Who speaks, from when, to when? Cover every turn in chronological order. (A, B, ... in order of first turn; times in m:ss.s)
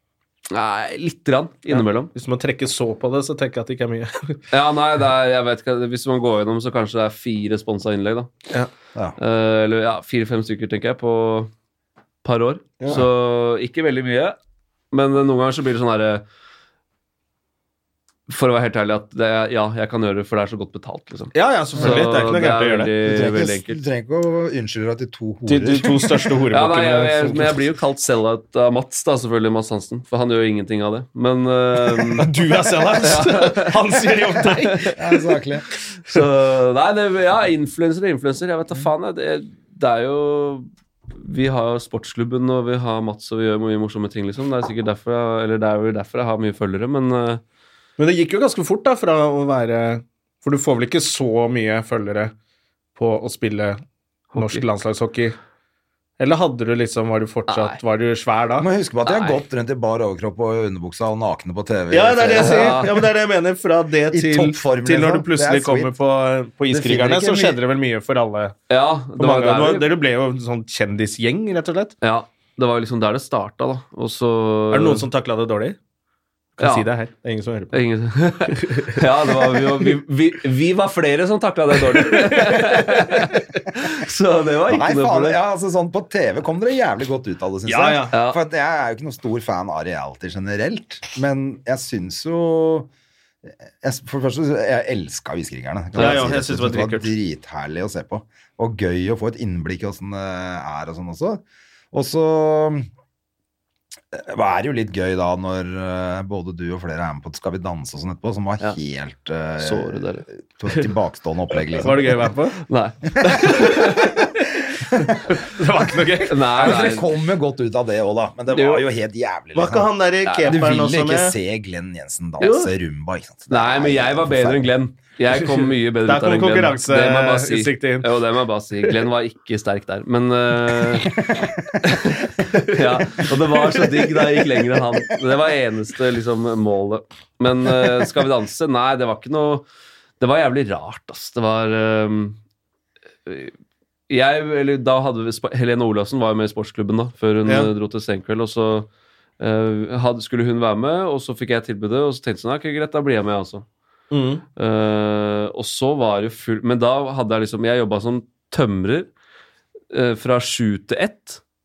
0:00.5-0:02.1 A
0:01.7-0:04.4 B
0:04.5-0:08.3 A
0:09.2-0:11.5 A
0:12.2-0:14.4 A
0:12.8-0:13.1 C
0:14.9-0:16.2 A
0:18.3-0:23.8 A
0:21.3-0:22.9 B
0:21.8-0:22.0 C
0:23.0-0:26.3 C
0:25.5-0:27.6 B
0:26.5-0:32.3 A
0:32.0-0:35.1 B
0:33.0-0:33.8 A
0:34.5-0:34.9 A
0:35.0-0:35.6 C
0:36.1-0:47.4 A
0:48.0-0:52.3 B
0:53.0-0:53.8 B
0:54.3-0:54.6 A
0:54.3-0:55.4 B
0:56.2-0:58.7 B
0:57.5-0:57.8 A
0:58.6-1:02.9 C
0:59.1-0:59.4 A
1:01.9-1:08.6 B
1:02.4-1:02.9 A
1:04.1-1:05.9 C
1:06.7-1:07.6 C
1:08.7-1:09.9 A
1:09.2-1:11.9 B
1:12.0-1:15.0 A
1:14.7-1:15.8 B
1:16.6-1:17.8 B
1:16.6-1:16.9 A
1:17.7-1:25.4 A
1:18.4-1:19.9 B
1:22.0-1:22.6 B
1:24.7-1:32.9 C
1:27.7-1:28.1 B
1:28.1-1:28.4 A
1:33.6-1:42.9 C
1:35.9-1:37.1 B
1:36.0-1:36.3 A
1:44.1-1:52.2 C
1:49.6-1:50.3 A
1:51.8-1:52.6 B
1:52.6-1:54.3 A
1:53.4-1:54.4 B
1:55.0-1:56.8 B
1:56.3-1:57.1 A
1:56.6-1:59.9 C
1:58.5-1:58.8 A
1:59.5-2:01.4 B
2:00.3-2:00.6 A
2:00.5-2:04.7 C
2:02.4-2:02.7 B
2:03.5-2:11.2 A
2:06.0-2:08.1 B
2:11.8-2:19.6 A
2:13.8-2:14.2 B
2:20.2-2:22.4 A
2:23.3-2:23.6 A
2:24.1-2:33.6 A
2:27.4-2:27.7 B
2:34.1-2:34.4 B
2:34.6-2:39.1 A
2:39.9-2:41.4 A